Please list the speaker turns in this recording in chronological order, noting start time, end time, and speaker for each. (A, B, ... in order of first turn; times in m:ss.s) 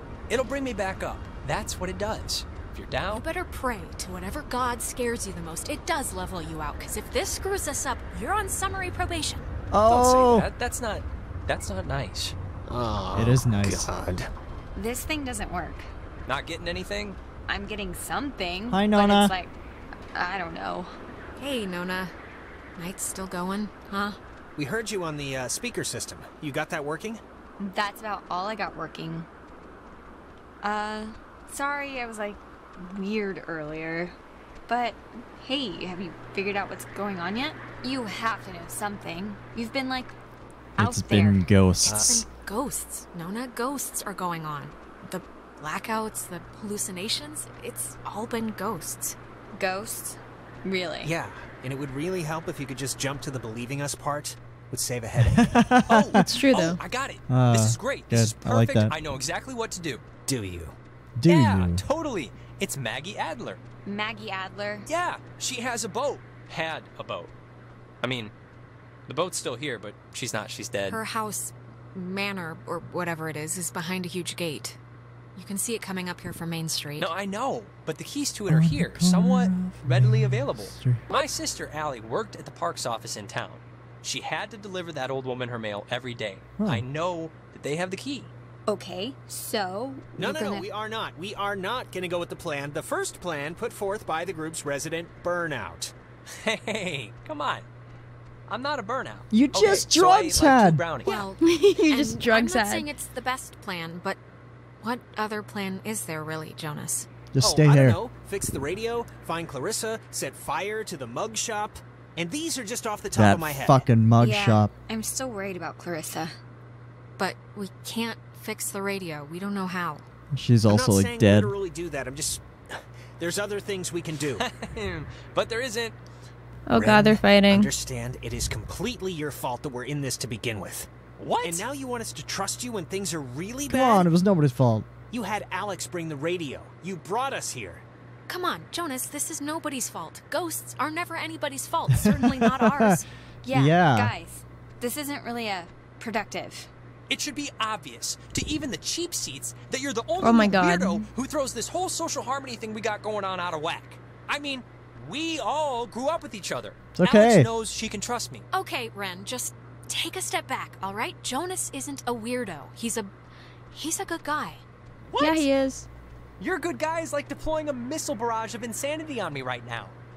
0:00.3-0:03.2 A
0:03.1-0:09.4 B
0:09.7-0:10.5 C
0:09.8-0:12.3 A
0:12.7-0:14.3 D
0:13.1-0:13.9 C
0:14.7-0:15.9 E
0:16.2-0:17.2 A
0:17.5-0:19.6 E
0:18.7-0:19.3 C
0:20.1-0:20.9 E
0:21.4-0:22.1 B
0:22.8-0:24.2 B
0:24.6-0:27.2 D
0:27.6-0:29.3 E
0:30.6-0:34.2 E
0:34.7-0:40.2 E
0:40.8-0:42.2 C
0:40.8-0:41.4 E
0:41.8-0:42.2 D
0:41.8-0:49.2 B
0:49.5-0:51.1 E
0:51.0-0:55.8 D
0:55.2-0:56.2 C
0:55.8-1:00.0 A
0:56.2-0:56.8 F
0:57.3-0:58.9 C
1:00.2-1:00.7 D
1:01.2-1:01.8 C
1:01.2-1:03.6 A
1:03.8-1:04.9 E
1:04.8-1:07.3 A
1:08.0-1:08.3 A
1:09.1-1:11.0 A
1:10.9-1:14.8 B
1:15.3-1:17.1 B
1:17.0-1:28.3 A
1:18.5-1:21.0 C
1:26.6-1:26.8 C
1:28.7-1:30.7 E
1:30.2-1:35.9 D
1:36.3-1:37.6 A
1:38.5-1:41.2 A
1:39.3-1:40.9 C
1:41.0-1:42.8 F
1:41.0-1:44.2 B
1:44.8-1:47.1 B
1:47.3-1:48.0 C
1:47.4-1:53.9 D
1:53.1-1:54.7 C
1:54.2-1:56.3 E
1:57.2-2:00.0 B
2:00.3-2:01.5 C
2:00.7-2:04.4 D
2:04.4-2:06.0 A
2:06.7-2:07.7 F
2:06.7-2:10.9 D
2:11.2-2:11.6 A
2:11.4-2:14.1 D
2:13.6-2:14.9 C
2:15.1-2:17.8 D
2:18.3-2:23.1 B
2:22.0-2:24.1 C
2:23.4-2:26.7 E
2:27.1-2:38.4 A
2:30.2-2:31.0 F
2:36.9-2:37.5 C
2:38.5-2:43.1 B
2:43.7-2:44.6 B
2:45.0-2:45.5 A
2:45.2-2:45.9 F
2:46.4-2:50.0 A